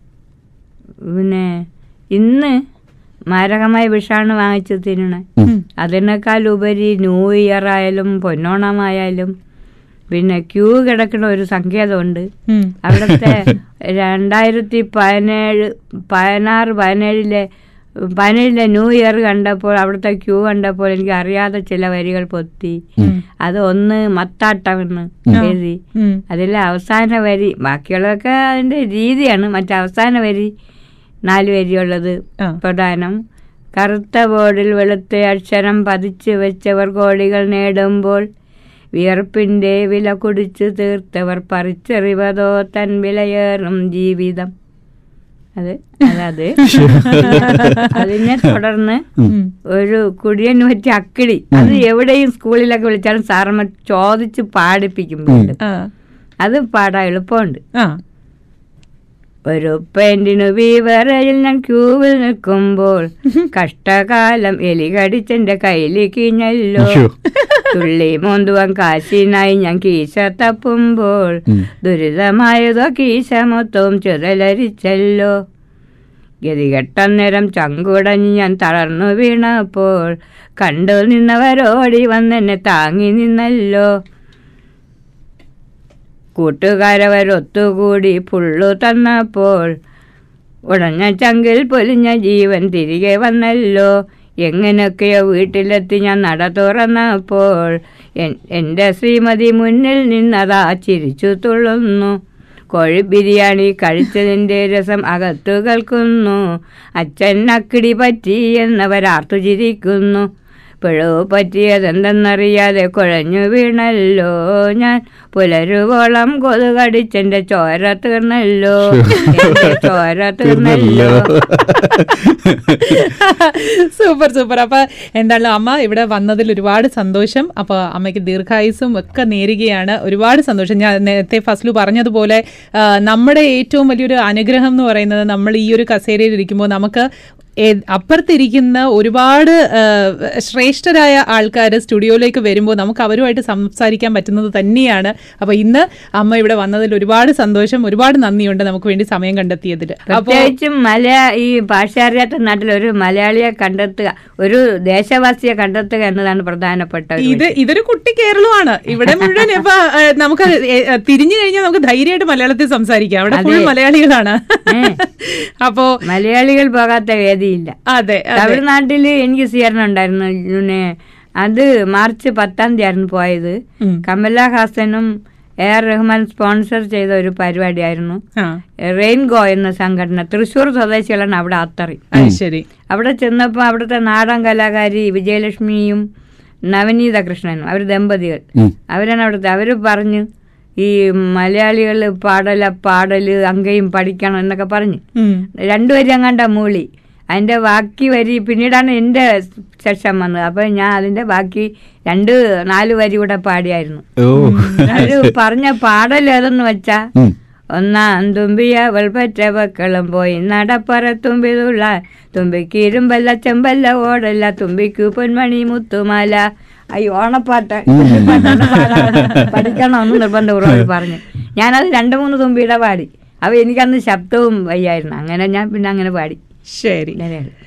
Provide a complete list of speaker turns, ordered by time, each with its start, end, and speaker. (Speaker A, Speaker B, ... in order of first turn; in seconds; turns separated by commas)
Speaker A: 1.0-2.6, Speaker A: 3.3-9.3, Speaker A: 10.1-12.3, Speaker B: 12.5-12.8, Speaker A: 12.8-17.5, Speaker C: 12.9-13.5, Speaker A: 18.0-22.9, Speaker A: 23.4-30.5, Speaker B: 25.3-26.2, Speaker A: 31.2-33.2, Speaker A: 33.8-38.3, Speaker A: 38.9-44.5, Speaker A: 45.6-49.0, Speaker B: 46.6-48.0, Speaker C: 46.6-47.9, Speaker B: 49.3-49.5, Speaker A: 49.6-55.6, Speaker B: 55.6-55.9, Speaker A: 56.4-57.6, Speaker A: 59.5-67.0, Speaker C: 66.8-67.1, Speaker B: 67.3-67.7, Speaker A: 67.6-75.3, Speaker A: 76.4-83.9, Speaker A: 86.3-89.8, Speaker A: 90.7-93.9, Speaker A: 94.4-102.2, Speaker A: 102.7-106.4, Speaker A: 107.0-110.3, Speaker A: 110.8-121.3, Speaker C: 118.8-119.8, Speaker B: 119.1-119.5, Speaker C: 120.4-123.1, Speaker B: 121.8-137.1, Speaker B: 137.6-150.5, Speaker A: 150.1-157.5, Speaker B: 157.2-166.0, Speaker A: 159.1-159.5, Speaker A: 163.3-163.7, Speaker A: 164.7-165.0, Speaker A: 166.0-167.8, Speaker B: 167.9-168.6, Speaker A: 168.3-175.1, Speaker A: 175.6-178.2, Speaker A: 178.8-182.1, Speaker B: 182.1-182.6, Speaker A: 182.9-186.0, Speaker A: 186.7-190.2, Speaker A: 190.8-195.0, Speaker B: 195.2-195.5, Speaker A: 195.6-199.3, Speaker A: 199.8-204.1, Speaker C: 204.2-205.3, Speaker B: 204.3-205.2, Speaker A: 204.9-207.1, Speaker A: 207.7-226.4, Speaker C: 217.9-219.5, Speaker B: 218.3-219.5, Speaker B: 226.7-227.2, Speaker A: 227.2-227.5